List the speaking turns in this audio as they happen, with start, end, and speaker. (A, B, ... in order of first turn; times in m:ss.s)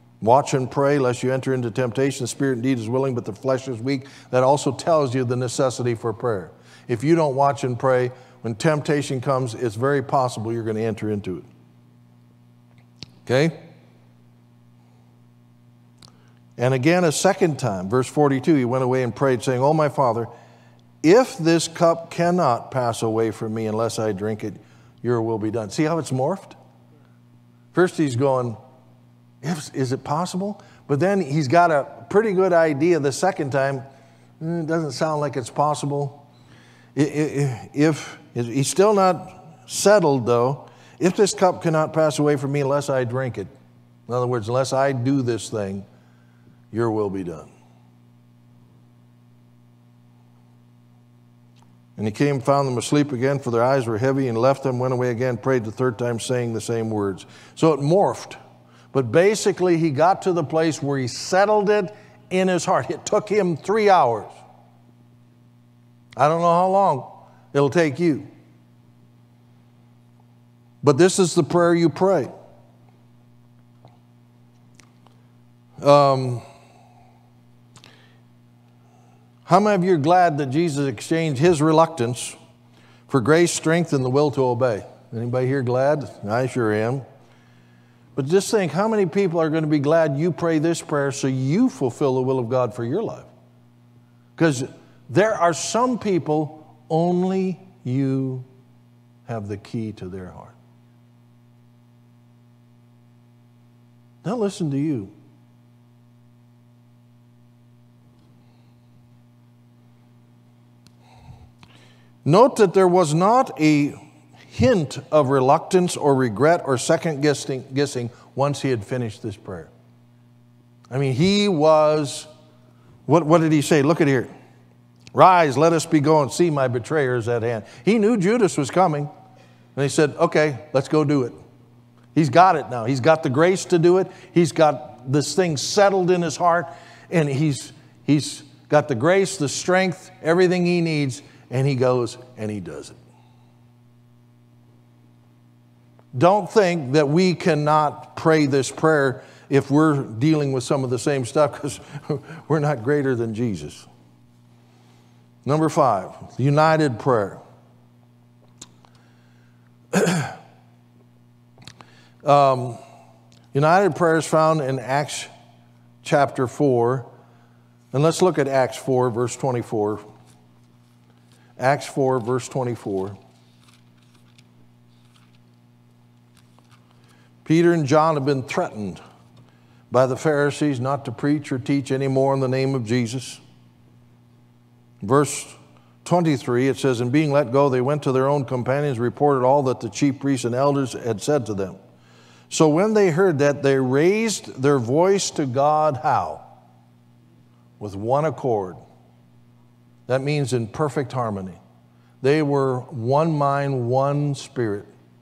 0:00.2-0:11.5 A
0:13.3-0:13.6 A
0:16.6-0:20.3 A
0:21.0-0:26.6 A
0:27.7-0:28.6 A
0:29.4-0:33.8 A
0:34.4-0:36.2 A
0:37.0-0:43.5 A
0:44.1-0:45.9 A
0:46.7-0:47.5 A
0:52.0-0:58.4 A
0:58.9-1:04.3 A
1:06.2-1:08.3 A
1:10.8-1:12.3 A
1:15.8-1:16.4 A
1:19.5-1:22.4 A
1:23.1-1:27.0 A
1:28.2-1:33.3 A
1:34.4-1:38.5 A
1:39.3-1:40.6 A
1:44.2-1:45.1 A
1:52.2-1:54.0 A
1:54.5-1:59.7 A
2:00.9-2:02.3 A
2:03.1-2:04.3 A
2:05.1-2:09.1 A
2:09.8-2:11.4 A
2:12.2-2:23.0 A
2:26.1-2:33.9 A
2:35.4-2:37.4 A
2:39.9-2:40.4 A
2:42.2-2:42.8 A
2:43.5-2:45.3 A
2:46.0-2:47.1 A
2:47.9-2:50.0 A
2:51.6-2:53.2 A
2:57.4-2:59.0 A
2:59.9-3:03.4 A
3:05.0-3:11.8 A
3:12.5-3:16.4 A
3:17.8-3:18.8 A
3:20.1-3:21.6 A
3:22.2-3:24.9 A